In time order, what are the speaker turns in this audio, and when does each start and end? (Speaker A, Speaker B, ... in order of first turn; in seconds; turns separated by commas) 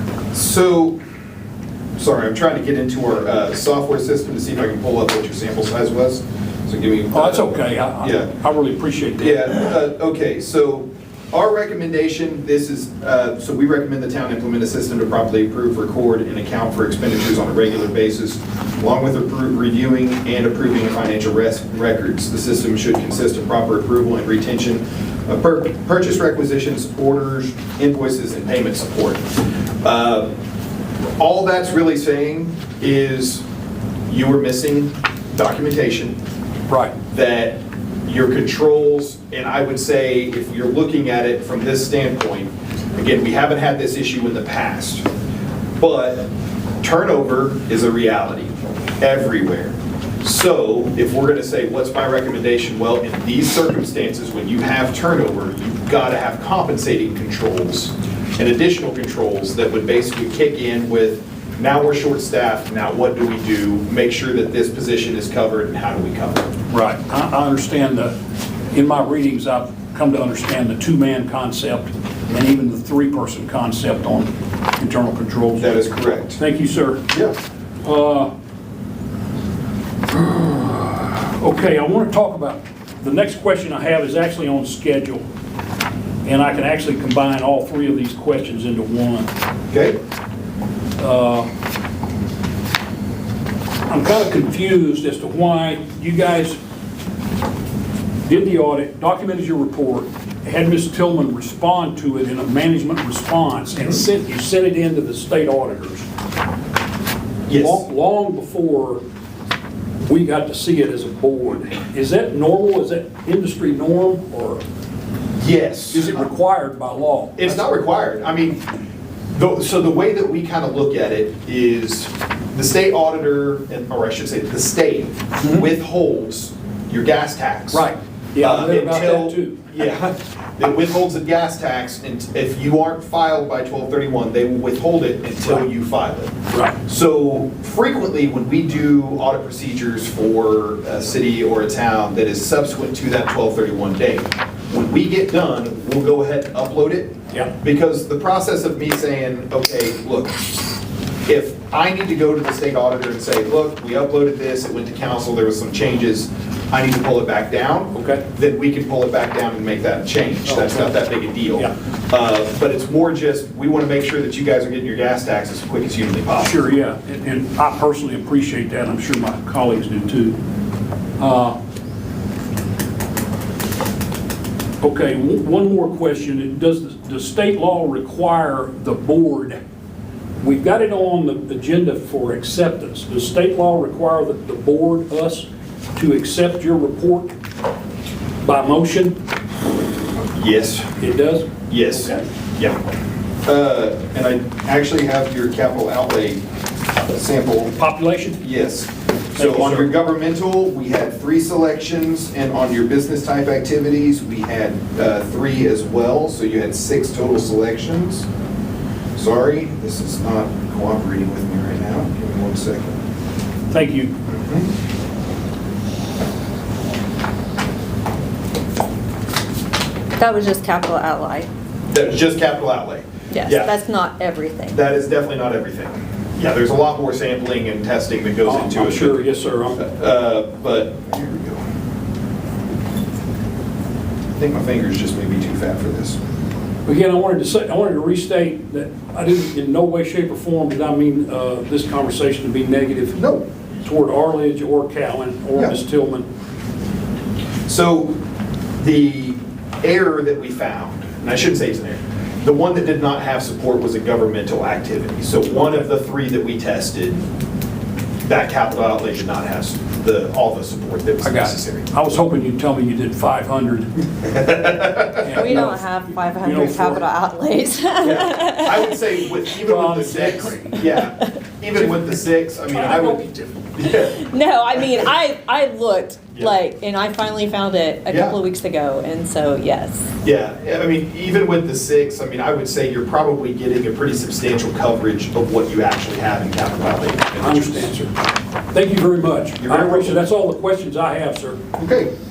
Speaker A: 0.3-1.0, Speaker A: 2.0-8.3, Speaker B: 7.1-9.6, Speaker A: 9.2-29.2, Speaker A: 29.8-30.3, Speaker A: 31.2-33.4, Speaker A: 34.1-36.2, Speaker B: 36.7-36.9, Speaker A: 37.1-45.0, Speaker A: 45.8-46.3, Speaker A: 46.8-66.5, Speaker B: 66.7-68.1, Speaker B: 68.7-75.8, Speaker A: 75.6-76.4, Speaker B: 76.3-77.0, Speaker A: 77.1-77.4, Speaker B: 77.8-78.3, Speaker B: 80.1-85.2, Speaker B: 86.2-89.3, Speaker A: 89.7-90.0, Speaker B: 91.0-91.5, Speaker B: 93.9-96.6, Speaker B: 98.2-106.0, Speaker A: 103.8-104.0, Speaker A: 107.5-107.8, Speaker B: 107.5-109.0, Speaker B: 110.0-114.6, Speaker A: 115.4-116.3, Speaker B: 115.9-117.8, Speaker A: 117.3-118.6, Speaker A: 119.3-127.8, Speaker B: 127.7-130.0, Speaker A: 128.4-136.3, Speaker B: 136.5-136.8, Speaker A: 136.8-150.5, Speaker A: 151.2-166.5, Speaker B: 157.9-158.2, Speaker B: 160.4-160.9, Speaker B: 166.4-170.3, Speaker B: 171.2-171.6, Speaker B: 174.8-179.6, Speaker B: 180.4-187.3, Speaker B: 188.4-189.2, Speaker A: 190.2-190.9, Speaker B: 191.0-192.2, Speaker A: 191.7-192.8, Speaker A: 193.4-196.4, Speaker A: 197.1-197.8, Speaker B: 197.8-198.4, Speaker A: 198.4-208.3, Speaker B: 199.3-199.9, Speaker A: 209.2-213.0, Speaker B: 213.7-214.1, Speaker A: 214.3-214.7, Speaker C: 220.2-221.5, Speaker A: 221.9-223.7, Speaker C: 223.3-224.8, Speaker A: 224.7-231.6, Speaker B: 228.4-229.8, Speaker A: 234.3-236.2, Speaker B: 236.8-243.2, Speaker A: 243.2-243.4, Speaker B: 243.8-246.3, Speaker A: 247.7-248.2, Speaker A: 248.8-257.2, Speaker A: 258.2-261.9, Speaker B: 261.2-263.9, Speaker A: 264.2-265.6, Speaker B: 265.1-267.0, Speaker C: 265.3-268.9, Speaker A: 268.0-275.1, Speaker B: 269.6-270.8, Speaker B: 272.7-273.5, Speaker C: 274.1-280.1, Speaker A: 278.1-278.4, Speaker A: 280.2-287.9, Speaker B: 287.4-288.1, Speaker B: 288.7-291.6, Speaker A: 289.6-290.2, Speaker A: 291.8-292.1